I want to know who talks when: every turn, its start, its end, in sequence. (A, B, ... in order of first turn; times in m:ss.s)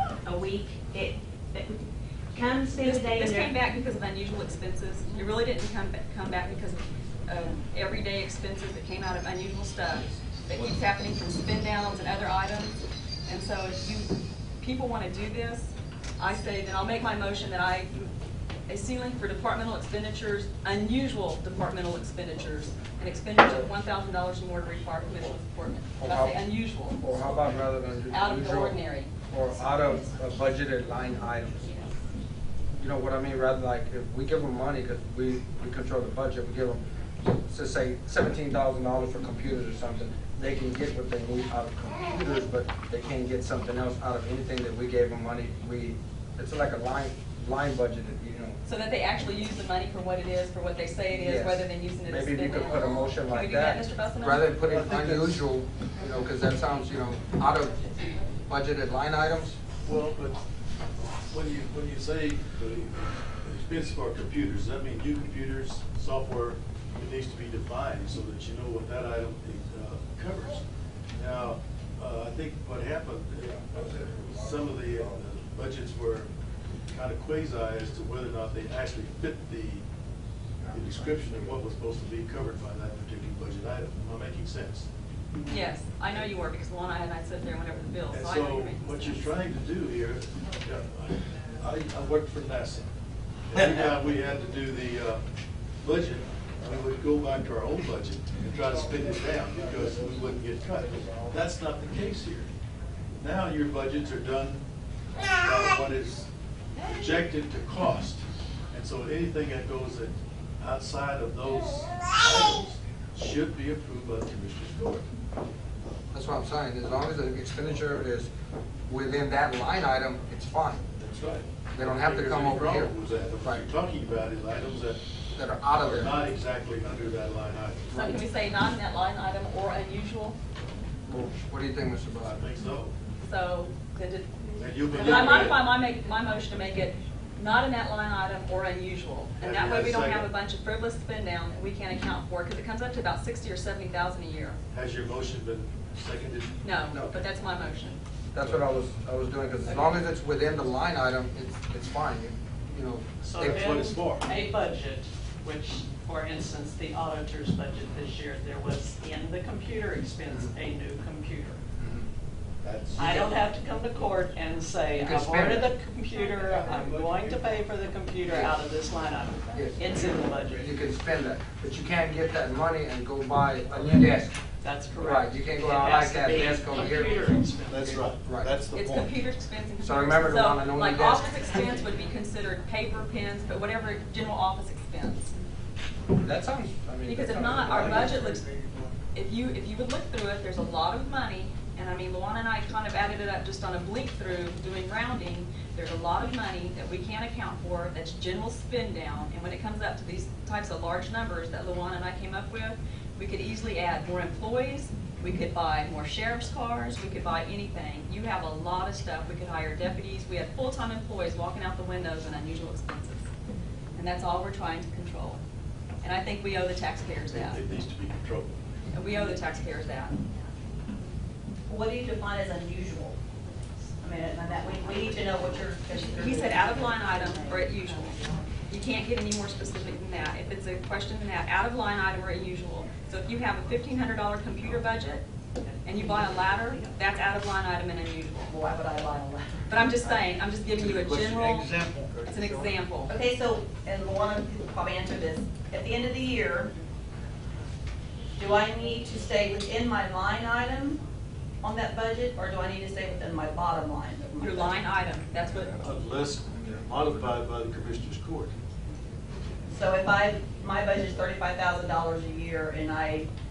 0:00.2-0:03.6 A
0:02.8-0:18.1 B
0:18.7-0:27.0 B
0:26.0-0:26.4 C
0:27.0-0:28.8 C
0:28.1-0:29.1 B
0:29.3-0:31.8 C
0:32.8-0:48.6 C
0:48.6-0:54.5 B
0:51.1-0:59.6 C
0:54.7-0:55.4 D
0:59.8-1:00.4 D
1:01.3-1:16.3 D
1:16.9-1:19.8 D
1:20.7-1:24.9 D
1:25.5-1:29.3 B
1:28.1-1:32.9 D
1:33.5-1:35.2 D
1:35.8-1:42.5 D
1:43.2-1:44.6 D
1:45.3-1:46.3 D
1:46.8-1:48.2 D
1:48.7-1:55.1 D
1:56.1-1:58.3 C
1:58.9-2:00.8 C
2:01.0-2:05.0 D
2:01.7-2:03.7 C
2:05.4-2:06.2 C
2:05.8-2:07.9 D
2:07.9-2:08.2 C
2:07.9-2:10.4 B
2:11.1-2:12.4 C
2:12.2-2:12.9 D
2:13.2-2:14.3 B
2:14.6-2:15.6 D
2:14.9-2:24.6 B
2:19.4-2:20.3 D
2:24.7-2:26.6 D
2:26.6-2:28.0 B
2:26.9-2:27.2 C
2:28.3-2:33.9 C
2:33.2-2:41.6 E
2:33.4-2:34.3 D
2:41.8-2:42.1 C
2:42.6-2:43.4 D
2:43.0-2:50.8 E
2:44.9-2:45.7 C
2:46.3-2:47.6 D
2:48.2-2:48.5 C
2:49.5-2:49.8 C
2:50.5-2:54.4 C
2:54.6-2:58.1 E
2:55.0-2:57.2 C
2:57.6-2:59.1 D
2:58.2-2:58.5 C
2:58.7-3:05.3 B
2:59.8-3:01.5 C
3:06.2-3:08.4 C
3:07.1-3:08.4 B
3:07.6-3:08.9 D
3:09.1-3:33.2 B
3:34.0-3:35.4 B
3:36.0-3:37.6 B
3:37.3-3:38.6 D
3:38.9-3:40.2 B
3:41.7-3:43.2 F
3:44.0-3:48.4 F
3:45.9-3:55.2 B
3:55.6-3:56.9 E
3:55.8-3:58.5 B
3:58.5-3:59.7 F
3:59.7-4:01.7 B
4:02.3-4:03.1 B
4:03.1-4:06.7 F
4:08.4-4:11.0 F
4:11.6-4:14.7 F
4:14.4-4:15.7 B
4:15.7-4:18.5 D
4:19.7-4:23.3 F